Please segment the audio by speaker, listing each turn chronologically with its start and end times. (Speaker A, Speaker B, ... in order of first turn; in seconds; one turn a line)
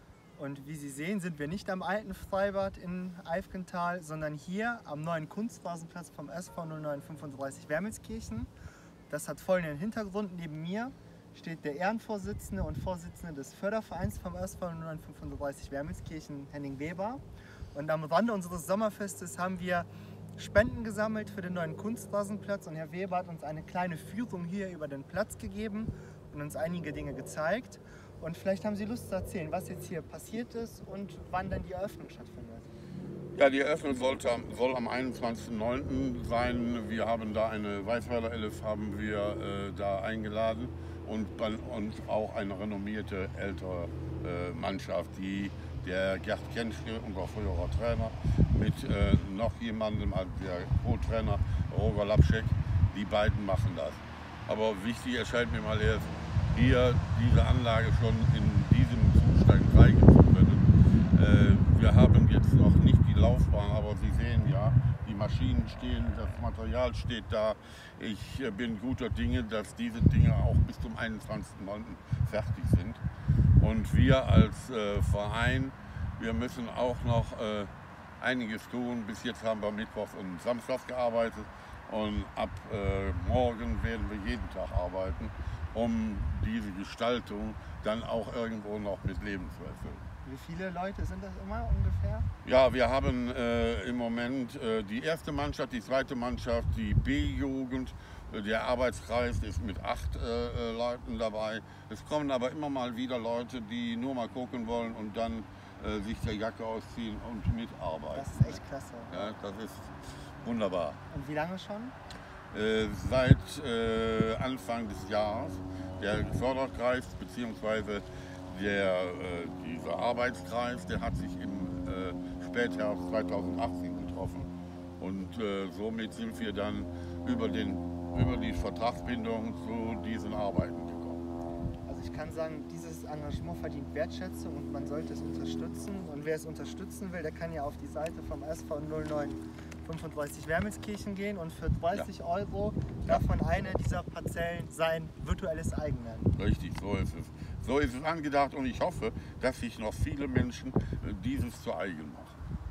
Speaker A: 0.4-8.5
Speaker A: 9.1-17.2
Speaker A: 17.7-32.7
Speaker B: 33.4-73.0
Speaker B: 73.6-90.0
Speaker A: 90.2-92.3
Speaker B: 92.4-111.0
Speaker A: 108.1-109.3
Speaker A: 111.1-111.9
Speaker B: 112.5-131.2
Speaker A: 131.9-146.3
Speaker B: 146.4-152.4